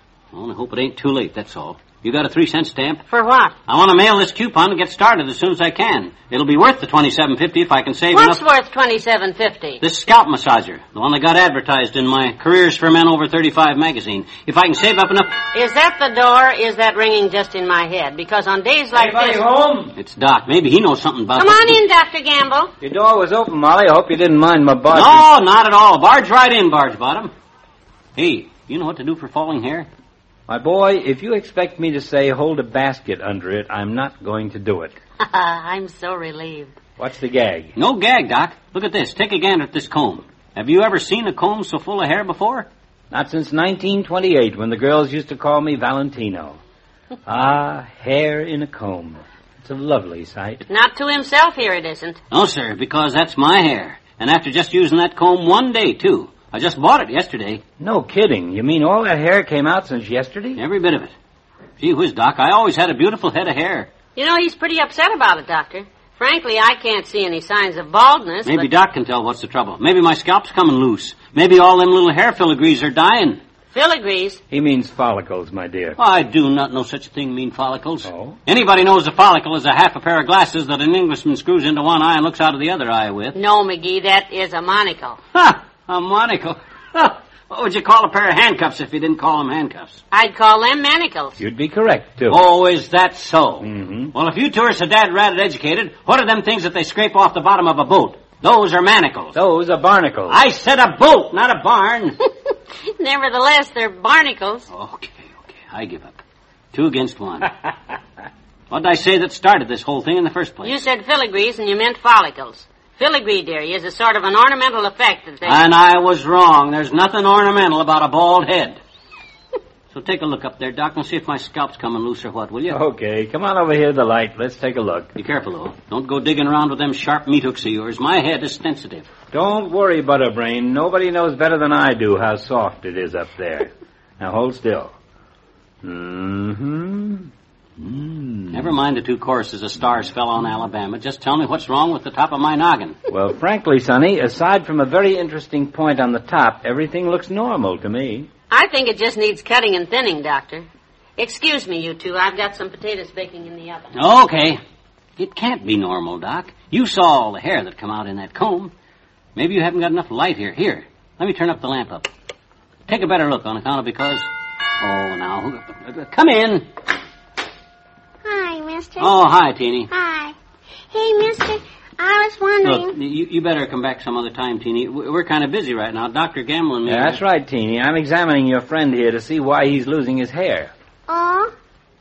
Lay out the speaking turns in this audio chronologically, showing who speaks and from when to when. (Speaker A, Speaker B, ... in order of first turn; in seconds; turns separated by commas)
Speaker A: 0.3-3.0, Speaker B: 3.1-3.5, Speaker A: 3.7-8.4, Speaker B: 8.1-9.8, Speaker A: 9.8-15.4, Speaker B: 15.5-19.4, Speaker C: 18.9-19.9, Speaker A: 19.9-21.8, Speaker B: 21.4-22.7, Speaker C: 22.8-25.2, Speaker A: 24.9-27.3, Speaker A: 28.2-29.9, Speaker C: 30.5-35.0, Speaker B: 35.2-36.8, Speaker C: 37.0-37.7, Speaker A: 37.8-42.7, Speaker C: 43.1-46.6, Speaker C: 47.3-50.6, Speaker B: 50.7-52.2, Speaker A: 52.3-57.6, Speaker C: 57.8-60.6, Speaker A: 60.5-61.1, Speaker A: 61.8-63.9, Speaker B: 64.2-68.7, Speaker A: 68.5-73.4, Speaker B: 73.7-74.4, Speaker C: 74.5-76.0, Speaker A: 76.0-83.4, Speaker C: 78.1-78.4, Speaker B: 83.3-85.2, Speaker A: 85.3-90.0, Speaker B: 90.1-91.4, Speaker C: 91.4-92.4, Speaker A: 92.3-99.4, Speaker C: 93.6-94.1, Speaker C: 99.3-100.4, Speaker A: 100.3-102.2, Speaker B: 103.0-104.7, Speaker A: 104.7-106.2, Speaker A: 106.7-107.5, Speaker A: 108.7-110.8, Speaker B: 110.6-115.6, Speaker A: 115.4-118.8, Speaker A: 119.9-122.8, Speaker C: 122.7-125.1, Speaker A: 125.2-129.1, Speaker C: 129.3-134.9, Speaker C: 135.8-138.7, Speaker A: 138.5-143.0, Speaker C: 143.1-148.3, Speaker B: 148.5-150.7, Speaker B: 151.2-153.9, Speaker A: 153.9-154.6, Speaker A: 155.2-158.7, Speaker A: 159.4-162.1, Speaker A: 162.9-164.2, Speaker A: 164.8-166.7, Speaker D: 168.2-169.1, Speaker A: 169.0-169.9, Speaker D: 169.9-170.4, Speaker D: 170.9-172.9, Speaker A: 172.6-177.2, Speaker C: 176.9-180.7, Speaker D: 181.1-181.5